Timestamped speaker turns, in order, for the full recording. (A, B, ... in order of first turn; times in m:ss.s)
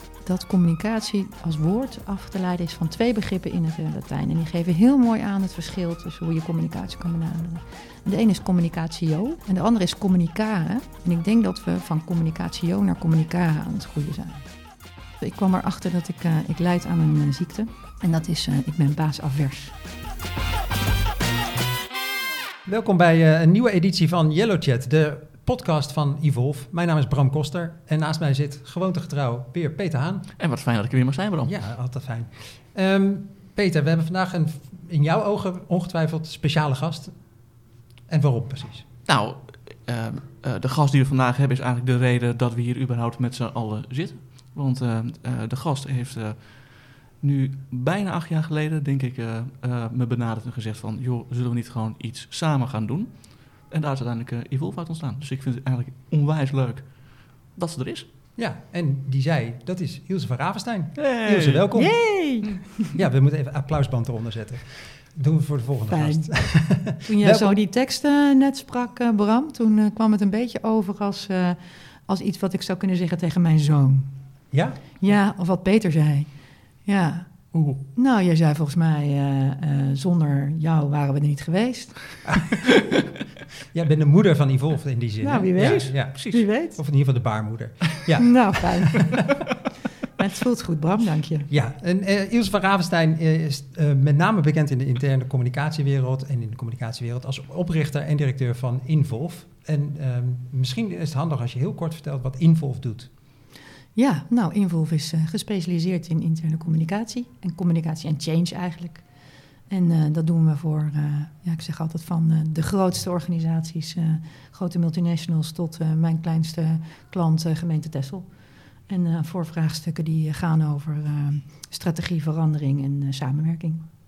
0:00.2-0:14.5 A
0:15.2-0:19.8 A
0:22.6-0:30.3 B
0:30.4-0:31.7 C
0:31.4-0:37.5 B
0:38.1-0:38.9 B
0:39.0-0:58.1 C
0:58.4-1:07.6 B
1:01.0-1:02.7 C
1:01.8-1:02.8 A
1:05.9-1:14.1 A
1:14.5-1:15.1 B
1:15.0-1:22.4 A
1:23.7-1:29.0 B
1:25.2-1:26.8 A
1:25.6-1:26.5 C
1:28.2-1:29.4 A
1:30.2-1:31.5 A
1:31.5-1:43.1 B
1:44.0-2:03.8 A